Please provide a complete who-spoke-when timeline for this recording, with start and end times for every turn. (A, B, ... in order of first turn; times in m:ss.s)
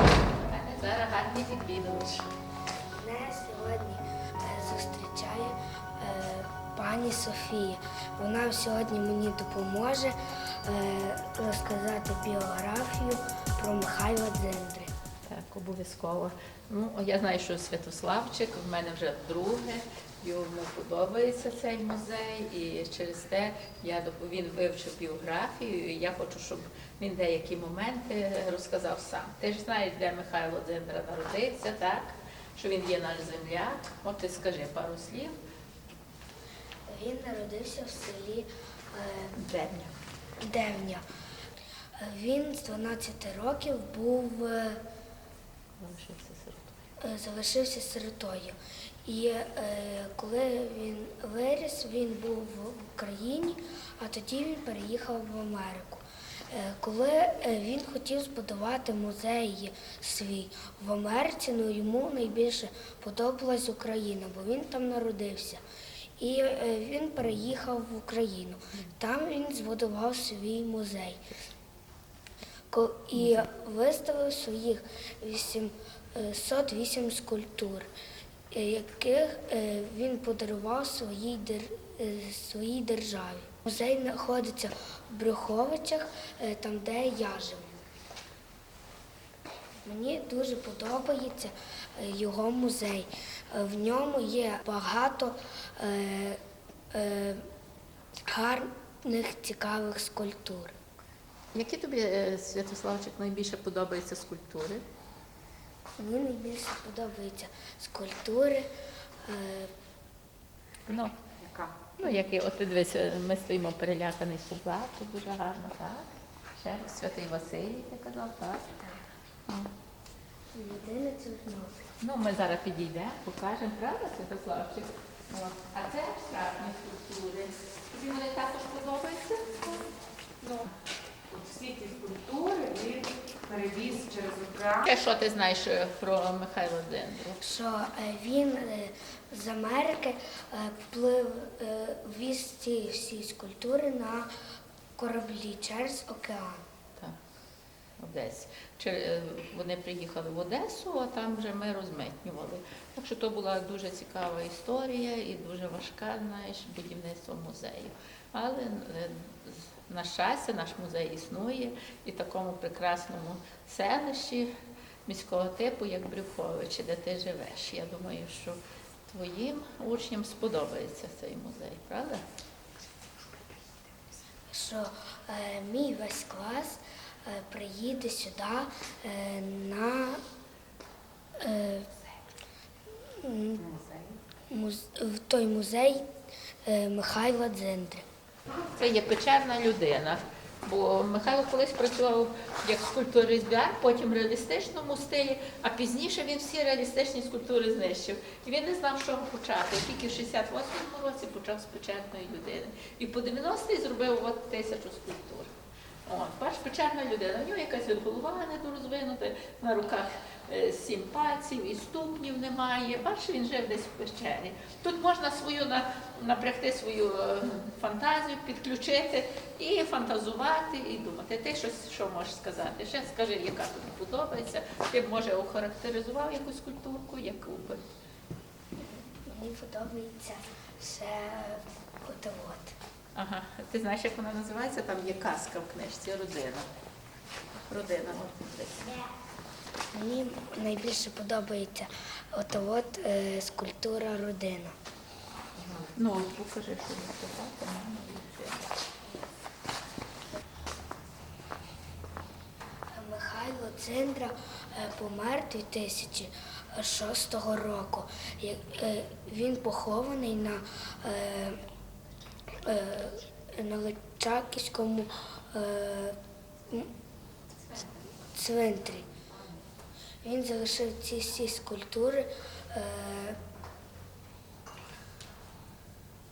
0:00.5-0:02.3 A
0:03.0-0:14.9 B
0:15.3-0:35.4 A
0:36.9-0:39.4 B
0:39.4-0:40.0 A
0:40.4-0:41.0 B
0:42.0-0:44.8 B
0:45.8-0:46.8 A
0:47.0-1:05.6 B
1:06.2-1:11.2 B
1:12.7-1:17.9 B
1:18.5-1:27.8 B
1:29.8-1:36.4 B
1:36.9-1:37.5 B
1:38.3-1:40.7 B
1:41.5-1:44.8 A
1:46.0-1:48.7 B
1:49.2-1:49.7 B
1:50.9-1:51.2 A
1:51.4-1:51.7 C
1:52.0-1:58.8 A
1:59.5-1:59.7 A
2:00.5-2:01.8 B
2:02.0-2:09.9 A
2:10.4-2:10.7 A
2:11.3-2:14.8 C
2:14.7-2:17.4 A
2:17.4-2:24.3 B
2:25.0-2:26.6 B
2:28.0-2:44.5 A
2:45.1-2:52.2 A
2:54.5-3:00.2 B
3:01.4-3:01.9 B
3:03.2-3:03.8 B
3:03.8-3:04.1 C
3:04.5-3:06.1 B
3:06.7-3:08.0 B
3:08.6-3:25.5 A
3:26.1-3:47.8 A
3:48.8-3:52.8 B
3:53.2-3:56.7 A
3:57.6-3:59.0 A
3:59.9-4:04.8 B
4:05.7-4:08.7 A
4:13.0-4:21.6 B
4:22.6-4:26.2 B
4:28.3-4:29.1 B
4:30.2-4:33.4 B